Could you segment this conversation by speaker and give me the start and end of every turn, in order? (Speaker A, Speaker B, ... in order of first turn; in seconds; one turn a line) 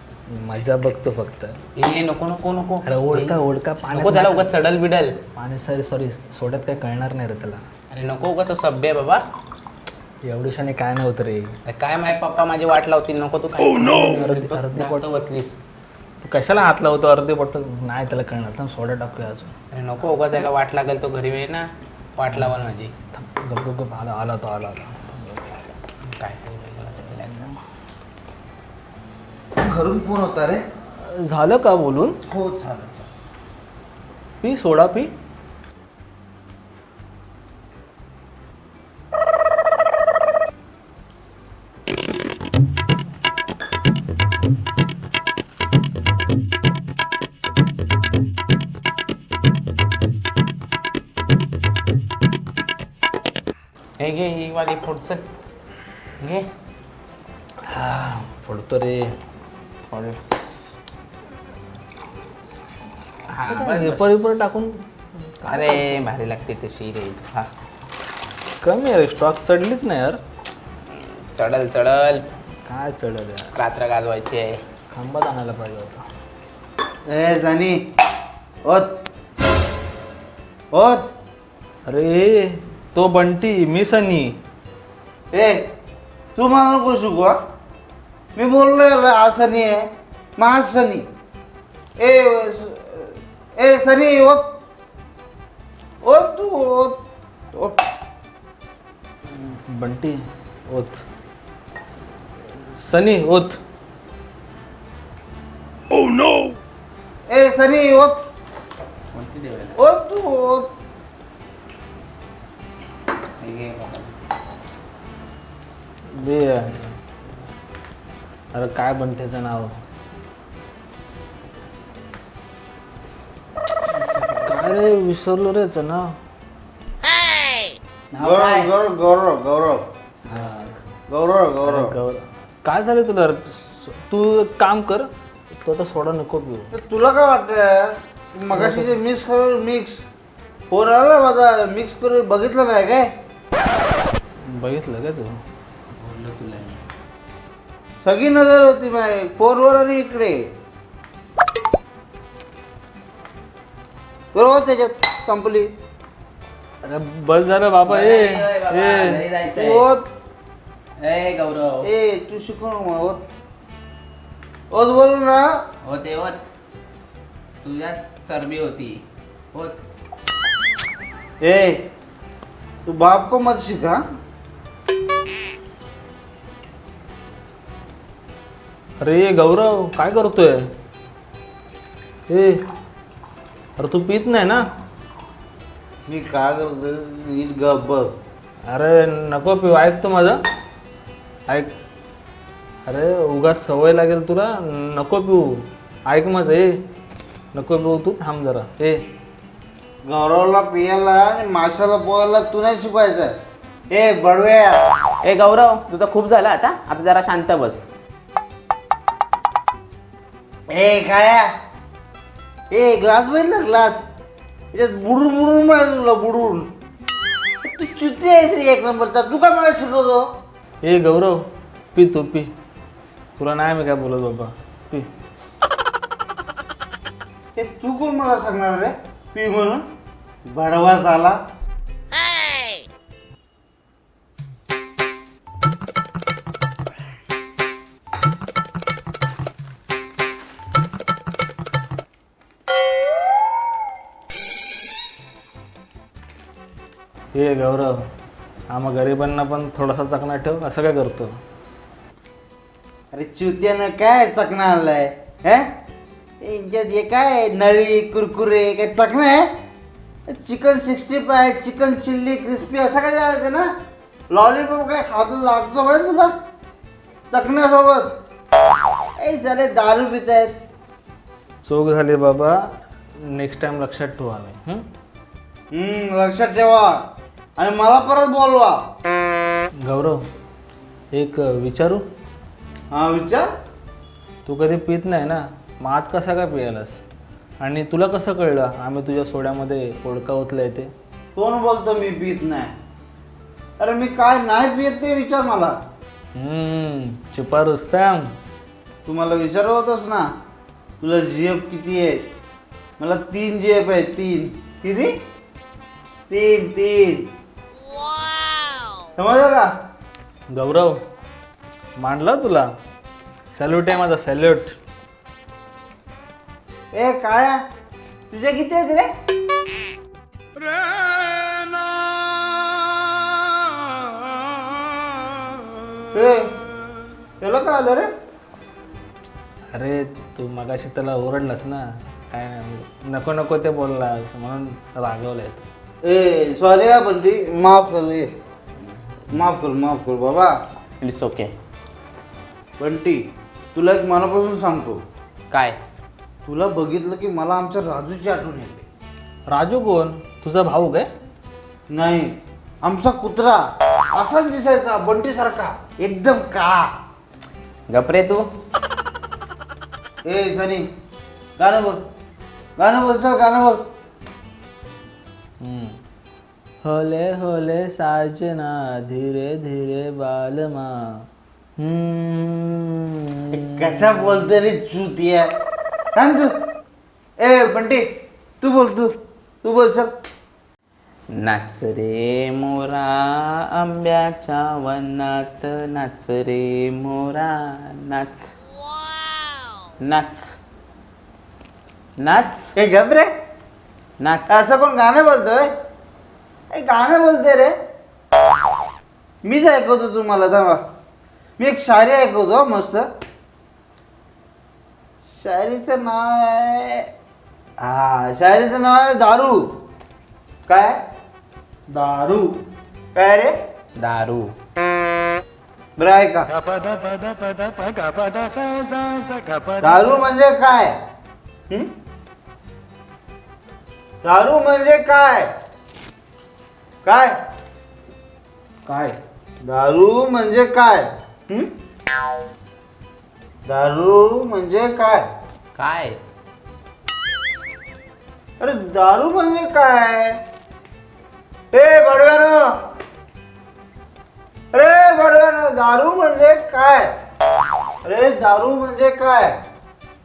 Speaker A: 0.3-1.6
Speaker B: 1.8-5.2
Speaker A: 2.8-4.5
Speaker A: 5.3-7.6
Speaker B: 7.9-9.2
Speaker A: 10.2-11.5
Speaker B: 11.7-15.5
Speaker A: 13.7-15.1
Speaker A: 16.2-19.5
Speaker B: 19.7-21.6
Speaker B: 22.1-22.9
Speaker A: 23.1-25.6
Speaker B: 26.1-27.5
Speaker A: 27.2-27.5
Speaker C: 29.6-30.6
Speaker A: 31.0-32.2
Speaker C: 32.3-33.0
Speaker A: 34.4-35.1
Speaker B: 54.0-55.2
Speaker A: 57.7-59.0
Speaker B: 59.9-60.2
Speaker B: 63.3-64.3
Speaker A: 63.5-64.7
Speaker A: 65.4-66.0
Speaker B: 65.5-67.5
Speaker A: 68.6-70.2
Speaker B: 71.3-72.2
Speaker A: 72.7-73.5
Speaker B: 73.5-74.5
Speaker A: 74.9-76.0
Speaker C: 77.1-77.8
Speaker C: 78.6-78.9
Speaker C: 80.7-81.0
Speaker A: 81.8-84.3
Speaker C: 85.3-85.6
Speaker C: 86.3-87.3
Speaker C: 88.3-89.8
Speaker C: 90.4-91.0
Speaker C: 92.0-94.4
Speaker C: 96.0-97.0
Speaker C: 97.5-97.8
Speaker A: 99.7-101.0
Speaker A: 102.8-103.6
Speaker C: 107.3-108.2
Speaker B: 109.1-109.8
Speaker C: 109.8-110.7
Speaker B: 113.4-114.1
Speaker A: 116.1-116.9
Speaker A: 118.5-119.7
Speaker B: 124.0-124.6
Speaker A: 124.5-126.1
Speaker B: 128.1-128.7
Speaker C: 128.2-129.8
Speaker A: 130.2-130.8
Speaker C: 131.1-131.9
Speaker A: 131.6-136.7
Speaker C: 136.7-140.0
Speaker A: 138.5-138.9
Speaker C: 140.7-143.1
Speaker A: 144.5-145.3
Speaker B: 146.0-146.8
Speaker C: 148.0-150.4
Speaker C: 154.3-155.7
Speaker A: 156.8-159.2
Speaker B: 157.8-159.9
Speaker C: 159.5-160.0
Speaker B: 161.0-161.8
Speaker C: 161.8-163.2
Speaker C: 164.7-165.5
Speaker B: 165.8-166.4
Speaker B: 167.6-169.0
Speaker C: 171.4-171.8
Speaker C: 172.8-174.0
Speaker A: 179.0-180.6
Speaker A: 182.3-182.6
Speaker A: 183.8-184.6
Speaker C: 186.1-188.1
Speaker A: 188.7-190.4
Speaker A: 191.5-191.7
Speaker A: 192.8-196.8
Speaker A: 197.5-199.0
Speaker C: 200.1-203.3
Speaker C: 203.9-204.8
Speaker B: 205.2-207.8
Speaker C: 210.7-211.5
Speaker C: 212.7-214.0
Speaker C: 214.7-216.7
Speaker C: 217.6-220.2
Speaker A: 220.8-221.4
Speaker A: 221.9-222.5
Speaker A: 223.4-225.1
Speaker C: 227.6-229.8
Speaker C: 230.5-231.4
Speaker A: 247.3-247.9
Speaker A: 248.7-251.3
Speaker C: 253.1-255.6
Speaker C: 256.4-259.4
Speaker C: 260.3-263.7
Speaker C: 264.3-266.3
Speaker C: 267.3-268.1
Speaker C: 269.2-270.5
Speaker A: 271.6-272.6
Speaker A: 273.2-274.9
Speaker C: 275.7-277.0
Speaker C: 277.6-278.8
Speaker A: 279.8-280.2
Speaker A: 281.1-282.0
Speaker C: 282.9-283.4
Speaker A: 284.4-287.0
Speaker A: 287.6-290.9
Speaker C: 291.4-292.7
Speaker C: 293.8-295.8
Speaker A: 296.3-298.3
Speaker C: 299.1-300.2
Speaker C: 301.0-302.2
Speaker C: 303.0-305.1
Speaker C: 306.3-307.2
Speaker C: 309.1-309.7
Speaker A: 310.5-311.0
Speaker A: 312.0-312.7
Speaker A: 313.5-314.7
Speaker C: 316.9-317.6
Speaker C: 318.3-319.1
Speaker C: 326.1-326.4
Speaker C: 327.4-328.1
Speaker A: 329.7-335.6
Speaker C: 336.0-338.3
Speaker C: 339.3-340.5
Speaker B: 341.0-341.5
Speaker C: 342.8-343.2
Speaker C: 343.7-345.0
Speaker B: 345.5-345.8
Speaker C: 346.4-348.8
Speaker A: 349.5-351.1
Speaker C: 351.9-353.6
Speaker C: 354.1-356.9
Speaker B: 357.9-358.5
Speaker C: 360.2-360.8
Speaker C: 361.6-362.0
Speaker C: 362.8-363.8
Speaker A: 365.6-365.9
Speaker A: 366.8-371.2
Speaker A: 371.8-374.4
Speaker C: 373.5-375.5
Speaker C: 376.1-376.5
Speaker C: 377.4-378.0
Speaker C: 378.6-379.1
Speaker C: 379.6-380.1
Speaker B: 381.3-388.5
Speaker B: 390.0-390.5
Speaker B: 392.2-392.7
Speaker C: 392.7-393.3
Speaker B: 394.2-394.6
Speaker C: 394.5-395.7
Speaker C: 396.7-397.7
Speaker C: 399.4-400.8
Speaker C: 401.6-403.1
Speaker C: 405.4-407.1
Speaker C: 407.8-409.6
Speaker C: 410.7-411.0
Speaker C: 411.9-412.6
Speaker C: 413.1-413.5
Speaker B: 413.9-414.5
Speaker C: 416.0-416.5
Speaker C: 419.8-421.0
Speaker C: 424.2-425.5
Speaker C: 427.0-427.3
Speaker A: 428.9-429.1
Speaker C: 429.6-431.7
Speaker C: 433.6-435.2
Speaker B: 435.7-436.2
Speaker C: 438.6-440.4
Speaker C: 441.7-442.7
Speaker C: 444.7-447.1
Speaker C: 448.0-449.6